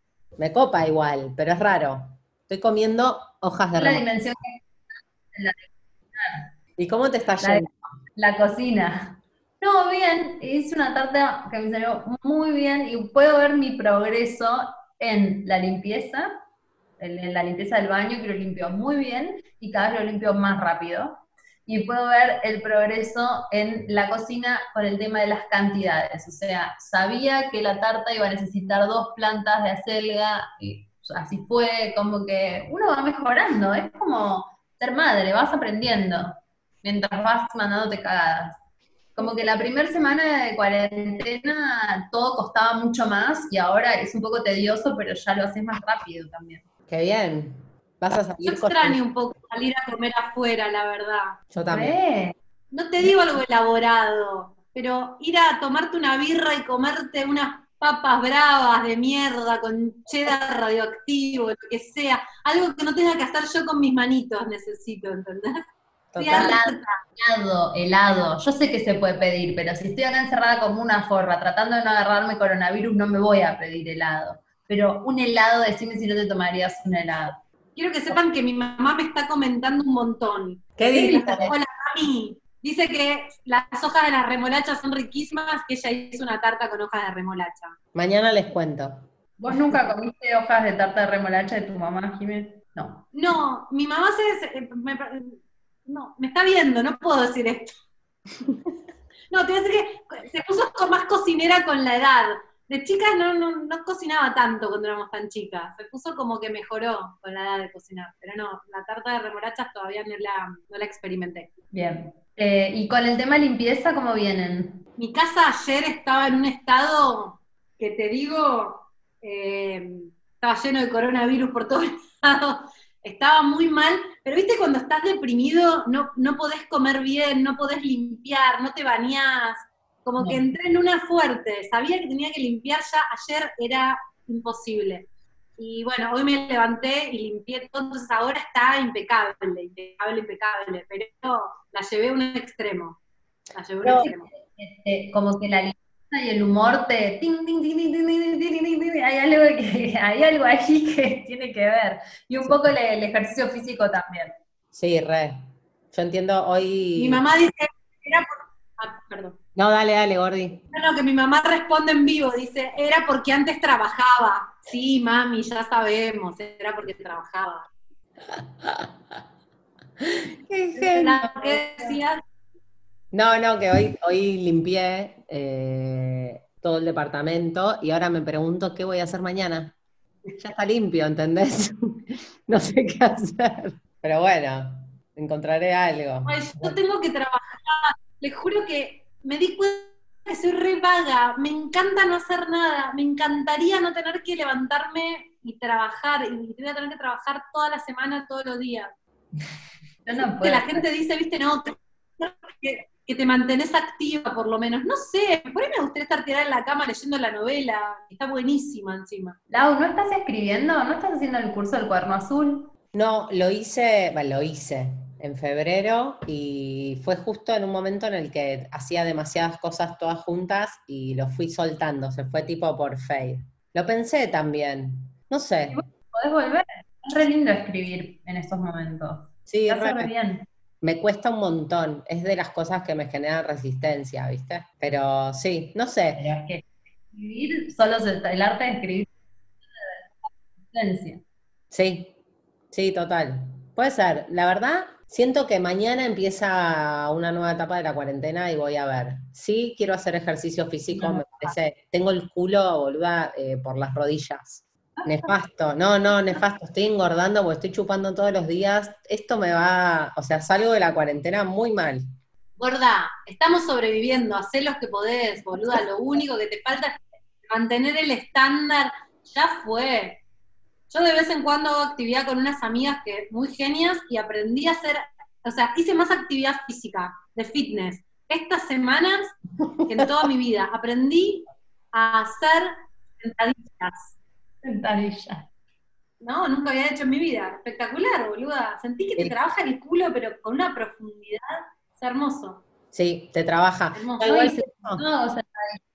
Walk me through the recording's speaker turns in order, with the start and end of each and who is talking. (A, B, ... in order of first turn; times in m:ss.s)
0:00.4-0:04.0 A
0:03.8-0:06.5 B
0:06.8-0:07.9 A
0:08.2-0:16.3 B
0:17.0-0:38.6 B
0:39.2-0:46.6 B
0:46.9-0:49.0 A
0:48.4-0:51.4 C
0:51.5-0:52.0 A
0:51.7-0:52.4 B
0:52.7-1:05.6 C
1:06.1-1:06.6 A
1:06.2-1:06.9 C
1:06.3-1:06.6 B
1:07.2-1:17.4 B
1:17.8-1:27.8 C
1:20.8-1:21.5 A
1:20.8-1:21.5 B
1:28.0-1:29.8 A
1:29.4-1:33.0 B
1:33.1-1:37.7 C
1:39.3-1:51.5 C
1:51.7-1:54.8 B
1:55.0-2:15.1 C
2:15.6-2:23.0 C
2:23.5-2:24.3 C
2:23.8-2:24.1 A
2:23.9-2:34.4 B
2:32.4-2:32.7 A
2:34.7-2:37.2 A
2:37.0-2:39.4 C
2:39.6-2:40.6 A
2:40.7-2:47.7 C
2:48.4-2:48.9 A
2:50.0-2:51.3 A
2:50.9-2:52.2 C
2:51.4-2:51.8 B
2:53.1-2:59.8 A
3:00.3-3:06.8 A
3:06.3-3:18.9 C
3:20.0-3:20.9 B
3:20.1-3:29.4 C
3:29.5-3:32.7 B
3:32.9-3:45.8 A
3:45.7-3:50.5 B
3:49.5-3:50.1 A
3:50.8-3:56.2 A
3:56.2-3:59.1 B
3:59.8-4:00.0 B
4:00.7-4:01.2 B
4:01.7-4:02.2 A
4:02.7-4:22.1 A
4:10.9-4:11.5 B
4:15.0-4:15.3 B
4:22.6-4:30.2 C
4:30.9-4:39.4 C
4:39.6-4:40.2 A
4:39.9-4:44.2 C
4:44.6-4:45.5 B
4:46.2-4:52.6 C
4:52.9-4:55.0 A
4:54.0-4:54.3 C
4:54.2-4:55.8 B